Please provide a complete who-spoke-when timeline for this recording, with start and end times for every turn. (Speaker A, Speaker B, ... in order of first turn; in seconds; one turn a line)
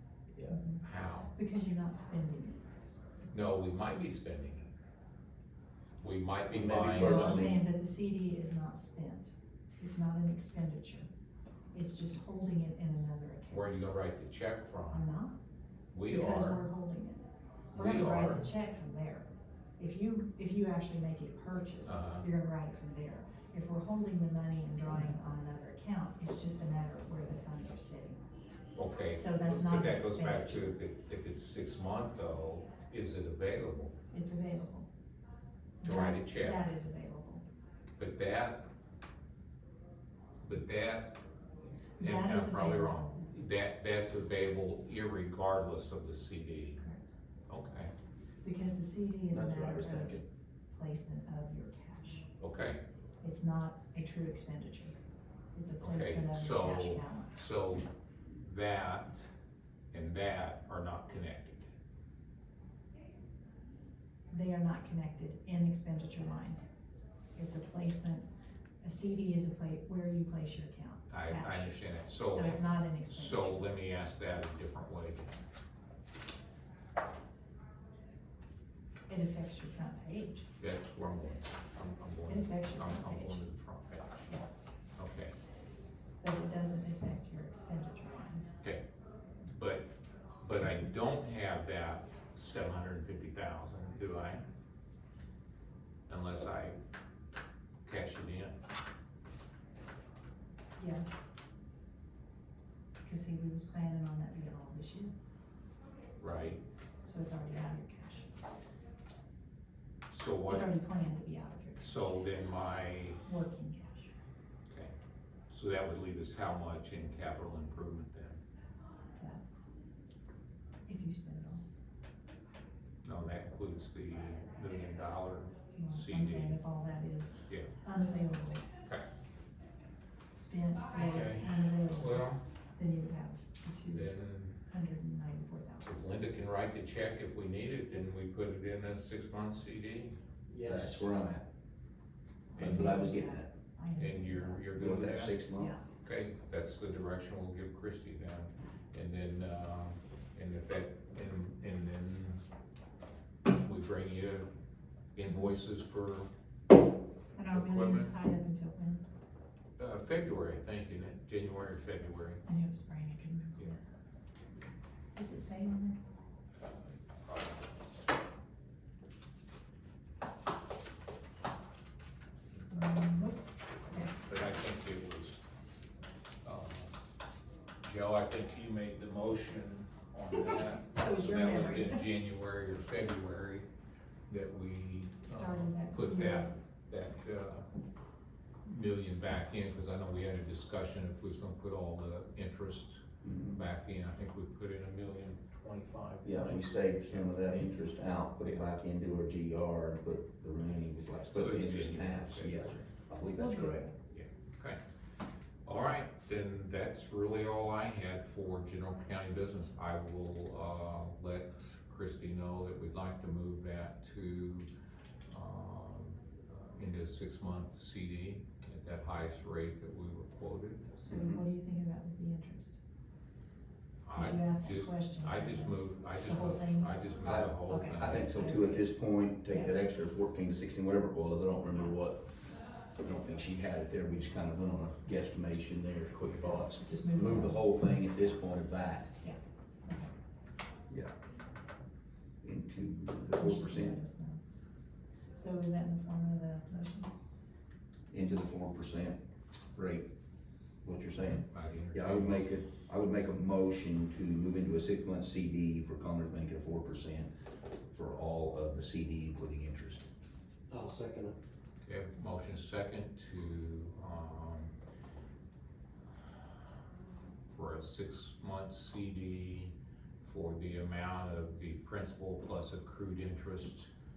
Speaker A: 0.5-0.8
Speaker B: 0.8-1.4
Speaker A: 1.4-2.6
Speaker B: 3.3-4.7
Speaker B: 6.0-7.5
Speaker C: 6.5-7.6
Speaker A: 6.9-11.1
Speaker A: 11.7-13.7
Speaker B: 13.5-15.0
Speaker A: 14.9-15.4
Speaker B: 15.9-16.6
Speaker A: 16.1-19.3
Speaker B: 17.7-18.5
Speaker A: 19.8-28.2
Speaker B: 21.9-22.3
Speaker B: 28.8-34.0
Speaker A: 29.1-30.7
Speaker A: 34.1-34.9
Speaker A: 35.8-37.4
Speaker B: 35.8-36.7
Speaker B: 38.0-38.7
Speaker B: 40.4-41.2
Speaker A: 42.0-43.2
Speaker B: 42.0-46.8
Speaker A: 46.8-47.1
Speaker B: 47.5-47.9
Speaker A: 48.4-52.3
Speaker D: 49.3-50.2
Speaker C: 49.5-50.0
Speaker B: 52.4-52.8
Speaker A: 53.2-55.0
Speaker A: 55.5-57.5
Speaker B: 55.8-59.3
Speaker B: 59.9-61.7
Speaker A: 64.3-66.7
Speaker A: 67.4-68.3
Speaker A: 68.8-73.7
Speaker B: 71.1-75.4
Speaker A: 79.1-80.5
Speaker B: 80.6-84.4
Speaker A: 82.3-83.5
Speaker B: 85.0-85.3
Speaker A: 86.2-88.5
Speaker B: 89.5-94.4
Speaker B: 96.1-96.8
Speaker B: 97.8-98.6
Speaker A: 100.8-101.1
Speaker A: 103.0-105.1
Speaker B: 106.2-106.6
Speaker A: 107.0-108.3
Speaker B: 110.1-110.7
Speaker A: 110.5-112.2
Speaker B: 111.8-113.2
Speaker A: 113.2-114.1
Speaker B: 115.5-118.4
Speaker A: 120.9-121.6
Speaker B: 123.0-126.6
Speaker A: 125.7-128.7
Speaker A: 130.3-135.9
Speaker B: 130.9-132.4
Speaker B: 133.9-134.6
Speaker B: 135.8-140.2
Speaker D: 140.5-141.1
Speaker C: 140.6-141.4
Speaker B: 142.6-142.8
Speaker A: 142.6-144.7
Speaker C: 142.6-143.5
Speaker B: 144.0-145.4
Speaker C: 144.7-145.7
Speaker A: 145.5-145.8
Speaker B: 146.0-152.4
Speaker B: 153.5-154.5
Speaker B: 155.2-156.3
Speaker A: 157.3-159.1
Speaker B: 157.5-158.1
Speaker B: 159.8-162.4
Speaker A: 162.5-163.8
Speaker A: 165.2-166.0
Speaker B: 166.6-167.9
Speaker B: 172.7-173.0
Speaker A: 172.7-174.1
Speaker B: 173.9-175.4
Speaker B: 176.4-176.9
Speaker B: 177.8-183.7
Speaker A: 180.3-182.1
Speaker B: 184.3-187.7
Speaker A: 185.3-186.6
Speaker B: 188.7-197.3
Speaker C: 193.2-193.6
Speaker C: 196.2-203.9
Speaker B: 201.3-202.9
Speaker A: 203.3-203.9
Speaker B: 204.1-204.8
Speaker B: 205.7-214.7
Speaker B: 215.3-221.0
Speaker A: 221.0-222.8
Speaker C: 221.1-221.4
Speaker B: 224.1-228.5
Speaker A: 224.1-227.1
Speaker C: 227.2-232.3
Speaker A: 227.6-228.9
Speaker A: 229.5-229.9
Speaker C: 232.9-239.1
Speaker A: 236.3-237.7
Speaker A: 239.2-240.1
Speaker C: 242.4-244.0
Speaker A: 243.4-244.4
Speaker A: 245.3-247.1
Speaker C: 248.1-249.2
Speaker C: 249.7-250.1
Speaker C: 250.8-260.1
Speaker B: 251.5-252.4
Speaker D: 260.7-261.4
Speaker B: 261.8-264.7
Speaker B: 267.5-273.9